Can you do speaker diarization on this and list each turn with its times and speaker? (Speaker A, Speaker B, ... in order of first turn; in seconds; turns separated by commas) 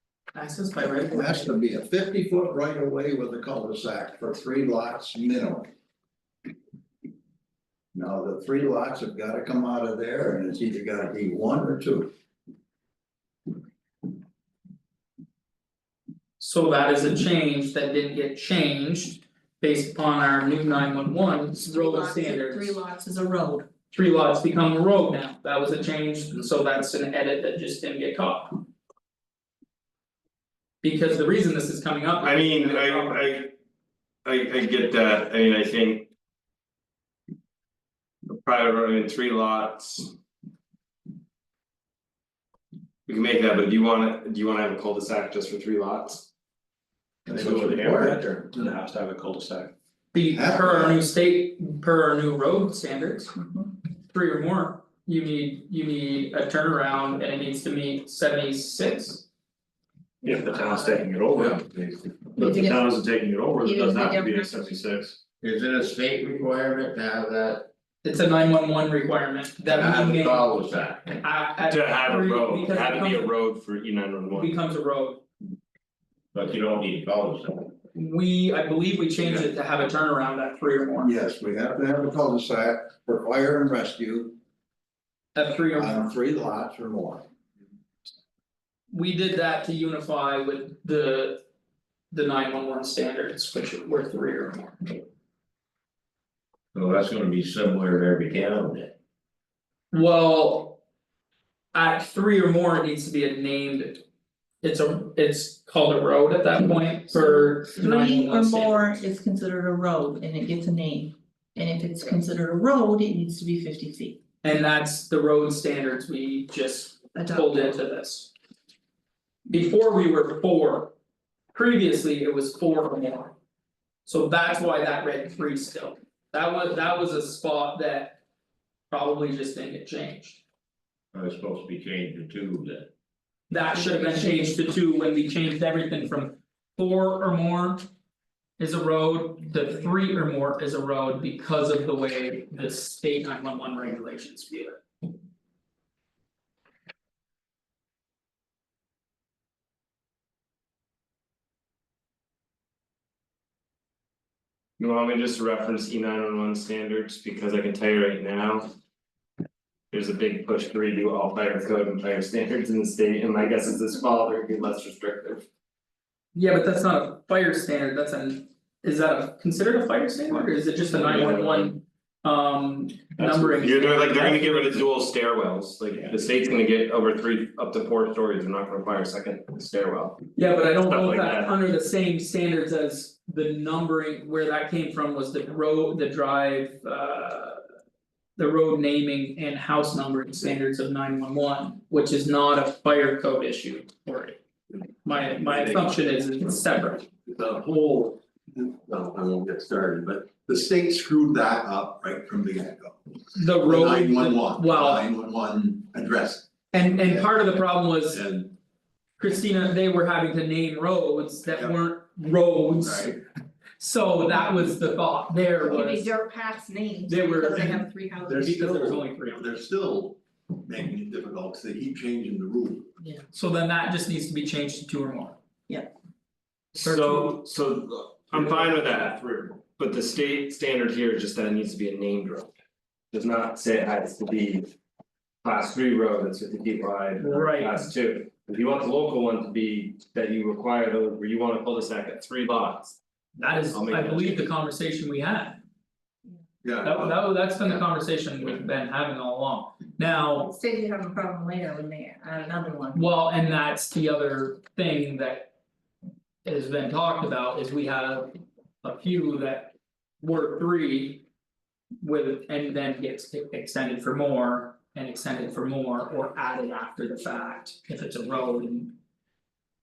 Speaker A: 0.3-1.5, Speaker B: 1.0-5.7, Speaker B: 7.9-12.1, Speaker A: 16.4-22.8, Speaker C: 21.6-23.7, Speaker A: 23.9-28.6, Speaker A: 30.8-33.2, Speaker D: 32.2-33.5, Speaker D: 34.2-36.1, Speaker D: 38.3-40.1, Speaker D: 43.1-46.3, Speaker B: 47.3-48.2, Speaker E: 47.3-49.7, Speaker A: 50.1-53.3, Speaker B: 50.3-51.0, Speaker C: 53.4-53.7, Speaker A: 54.1-59.2, Speaker E: 60.2-65.2, Speaker C: 60.3-61.0, Speaker C: 62.4-62.9, Speaker C: 63.6-64.5, Speaker F: 65.4-67.7, Speaker A: 68.0-70.5, Speaker F: 69.7-71.2, Speaker A: 71.2-73.3, Speaker D: 71.7-74.5, Speaker A: 74.3-75.2, Speaker F: 76.3-77.7, Speaker A: 77.9-81.1, Speaker B: 81.0-84.4, Speaker A: 85.3-86.1, Speaker B: 85.7-87.3, Speaker A: 88.9-91.4, Speaker A: 92.1-95.0, Speaker F: 96.7-98.9, Speaker A: 99.9-100.8, Speaker A: 101.7-104.0, Speaker A: 104.6-108.9, Speaker C: 107.1-114.2, Speaker A: 114.4-118.3, Speaker C: 117.2-117.6, Speaker A: 119.5-120.9, Speaker A: 121.5-123.3, Speaker A: 124.1-128.2, Speaker A: 128.9-130.4, Speaker F: 131.1-132.9, Speaker A: 133.5-137.8, Speaker C: 133.7-134.5, Speaker A: 138.6-144.8, Speaker D: 154.8-158.7, Speaker D: 159.9-165.4, Speaker A: 166.3-174.7, Speaker D: 171.0-171.7, Speaker E: 173.2-173.6, Speaker D: 173.6-180.2, Speaker A: 180.4-187.6, Speaker D: 180.8-181.5, Speaker A: 188.4-194.4, Speaker A: 195.0-197.0, Speaker G: 195.4-195.9, Speaker G: 197.2-203.0, Speaker A: 203.3-205.1, Speaker G: 203.6-207.3, Speaker A: 206.7-208.2, Speaker G: 208.1-208.5, Speaker A: 209.2-213.2, Speaker G: 212.8-213.1, Speaker A: 213.8-216.1, Speaker C: 215.7-218.3, Speaker A: 217.1-219.5, Speaker G: 217.6-222.9, Speaker A: 223.3-225.4, Speaker D: 226.8-232.5, Speaker A: 226.8-227.4, Speaker D: 233.1-234.7, Speaker D: 235.4-243.0, Speaker A: 237.2-237.8, Speaker A: 243.4-245.6, Speaker D: 243.7-244.5, Speaker G: 246.6-247.2, Speaker A: 246.8-250.5, Speaker C: 250.4-253.1, Speaker A: 252.9-255.5, Speaker A: 256.4-258.3, Speaker A: 258.8-261.2, Speaker A: 262.0-268.9